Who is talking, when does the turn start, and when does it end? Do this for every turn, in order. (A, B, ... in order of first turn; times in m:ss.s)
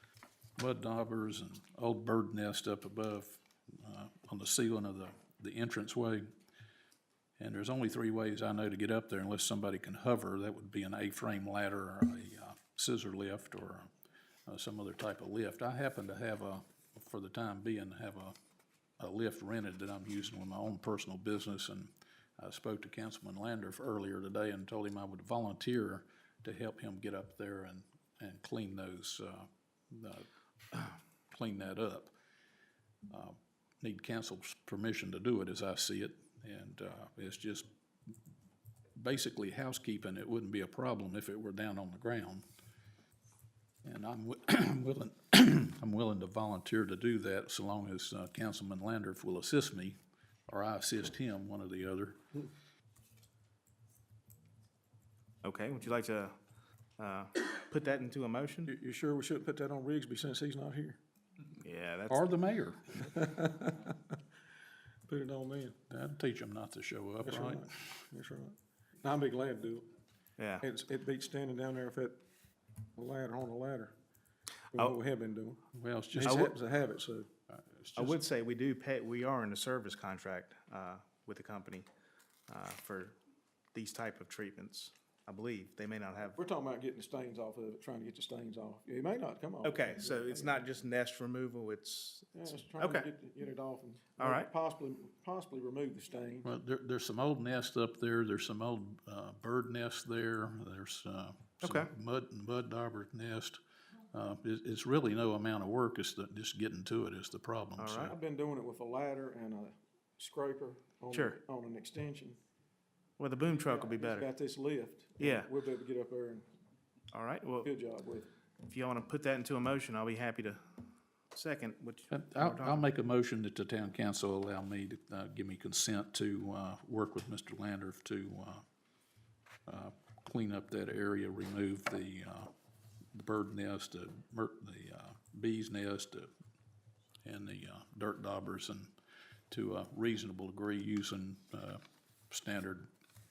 0:00.6-0:06.3 A
0:07.4-0:13.9 A
0:14.5-0:18.4 A
0:19.0-0:32.1 A
0:33.1-0:37.7 A
0:39.0-0:42.4 A
0:43.8-0:50.0 A
0:50.5-0:52.2 A
0:55.4-0:56.4 B
0:57.0-0:58.7 B
0:58.7-1:01.0 C
1:01.6-1:02.2 B
1:02.1-1:03.2 A
1:03.1-1:04.1 C
1:05.1-1:05.8 C
1:05.9-1:07.6 A
1:07.2-1:09.9 C
1:10.4-1:10.6 B
1:10.6-1:12.2 C
1:13.0-1:13.9 C
1:14.7-1:15.6 C
1:15.8-1:16.4 A
1:16.1-1:17.3 C
1:16.2-1:16.5 B
1:17.5-1:18.2 A
1:18.0-1:21.9 B
1:22.5-1:23.2 B
1:23.7-1:26.4 B
1:26.4-1:30.6 C
1:29.6-1:33.1 B
1:32.4-1:36.5 C
1:34.2-1:34.5 B
1:36.4-1:43.6 A
1:41.6-1:41.9 B
1:44.1-1:48.1 A
1:47.8-1:48.2 B
1:48.1-1:52.4 C
1:51.1-1:51.4 B
1:53.2-1:54.3 B
1:53.6-1:56.5 C
1:55.2-1:55.5 B
1:57.1-1:57.7 B
1:57.6-1:58.3 C
1:58.7-2:00.6 B
2:01.3-2:02.9 B
2:02.1-2:08.6 A
2:09.7-2:12.5 A
2:13.1-2:16.3 A
2:17.2-2:18.9 A
2:19.5-2:22.9 A